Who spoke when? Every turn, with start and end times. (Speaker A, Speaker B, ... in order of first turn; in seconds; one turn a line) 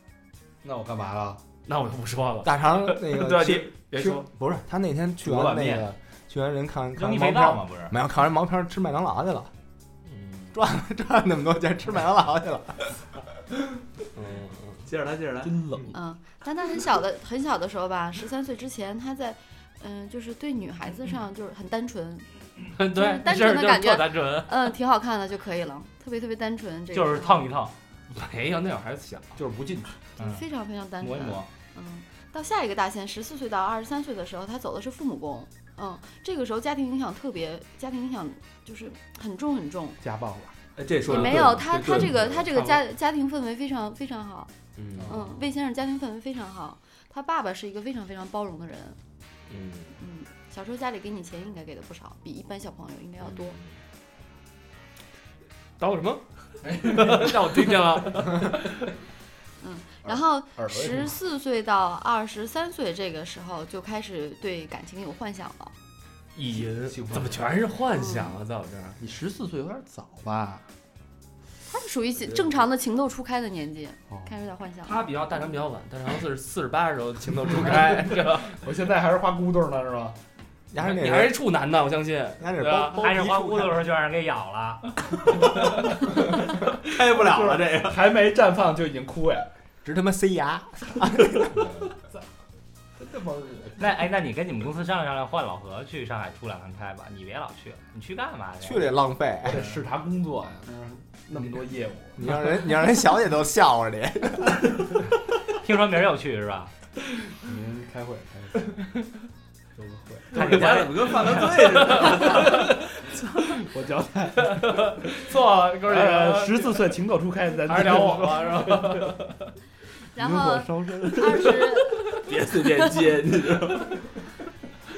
Speaker A: 0.6-1.4
Speaker B: 1.6-4.3
Speaker C: 2.4-9.5
Speaker D: 6.9-7.9
Speaker B: 10.1-10.5
Speaker C: 10.5-13.0
Speaker B: 14.1-14.8
Speaker E: 14.8-15.6
Speaker A: 15.4-15.9
Speaker F: 15.9-22.3
Speaker B: 22.7-24.7
Speaker F: 22.9-27.5
Speaker D: 26.9-27.7
Speaker B: 28.1-29.4
Speaker A: 29.4-30.1
Speaker D: 30.2-30.5
Speaker F: 30.2-40.0
Speaker D: 31.0-31.5
Speaker A: 40.0-40.6
Speaker E: 40.8-42.5
Speaker B: 41.0-42.8
Speaker F: 41.0-44.5
Speaker B: 44.8-45.3
Speaker F: 45.1-49.0
Speaker B: 49.5-49.9
Speaker F: 50.0-53.6
Speaker B: 53.2-53.7
Speaker B: 55.8-58.8
Speaker A: 56.7-57.3
Speaker F: 59.6-65.7
Speaker A: 60.5-61.1
Speaker B: 66.3-69.0
Speaker A: 66.7-67.4
Speaker F: 67.9-68.3
Speaker A: 69.0-70.6
Speaker F: 71.7-75.0
Speaker B: 74.8-78.6
Speaker A: 77.7-80.2
Speaker C: 80.7-81.4
Speaker B: 80.8-83.0
Speaker C: 82.4-83.8
Speaker D: 82.9-84.9
Speaker E: 86.7-88.0
Speaker A: 87.0-89.5
Speaker C: 89.8-91.7
Speaker A: 93.0-93.8
Speaker D: 93.8-98.9
Speaker C: 98.6-99.6
Speaker A: 99.5-102.4
Speaker C: 102.2-104.8
Speaker D: 105.6-106.7
Speaker A: 107.3-108.8
Speaker A: 109.8-110.8
Speaker E: 110.3-112.6
Speaker D: 110.3-111.6
Speaker B: 111.5-112.1
Speaker A: 111.8-119.2
Speaker B: 114.5-116.7
Speaker B: 117.7-119.4
Speaker F: 120.1-122.2
Speaker A: 120.2-121.8
Speaker E: 122.0-124.1